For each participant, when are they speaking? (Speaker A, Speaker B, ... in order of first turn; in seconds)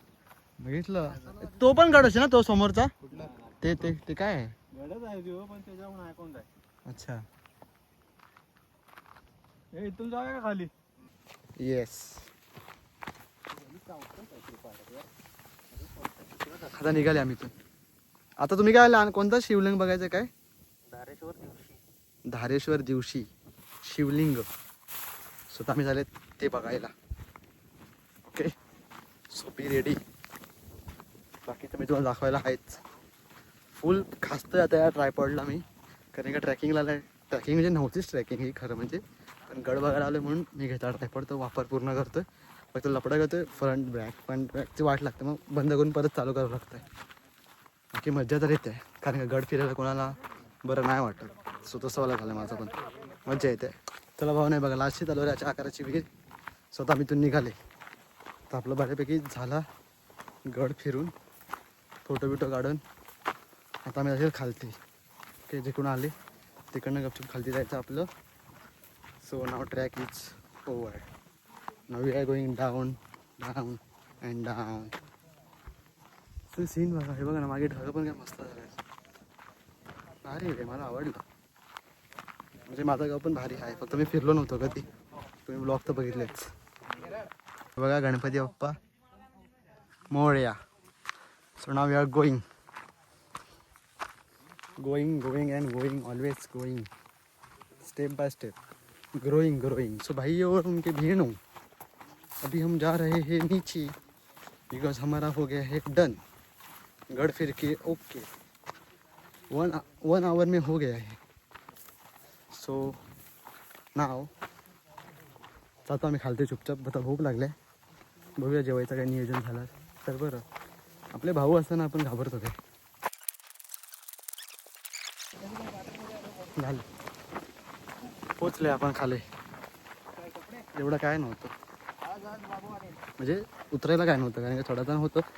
Speaker A: 0.6-2.9, 3.6-4.5, 6.9-7.2, 11.6-12.3, 16.7-17.5, 18.4-20.3, 22.3-23.3, 23.8-24.5, 25.5-26.9, 28.3-28.6, 29.3-30.0, 31.4-32.8, 33.8-46.8, 47.9-56.1, 56.7-57.6, 58.5-59.6, 60.5-61.1, 62.1-62.8, 63.9-64.8, 65.5-66.1, 66.7-68.1, 69.2-71.1, 71.9-75.0, 76.5-78.8, 80.2-81.2, 82.7-84.9, 85.5-86.5, 87.7-88.8, 90.1-90.6, 91.6-92.4, 94.8-96.9, 97.8-98.5, 99.2-101.4, 102.4-103.9, 104.7-106.2, 107.1-108.3, 109.5-111.2, 112.5-113.0, 114.0-114.3, 115.9-117.5, 118.4-120.5, 121.1-122.6, 126.5-126.9, 128.3-129.2, 130.7-131.5, 133.2-135.2
Speaker B: 3.0-3.5, 4.7-6.5, 9.7-10.7, 13.5-15.1, 52.7-53.3
Speaker C: 15.9-16.9, 20.9-21.8, 125.4-126.3, 130.1-130.7, 132.0-133.0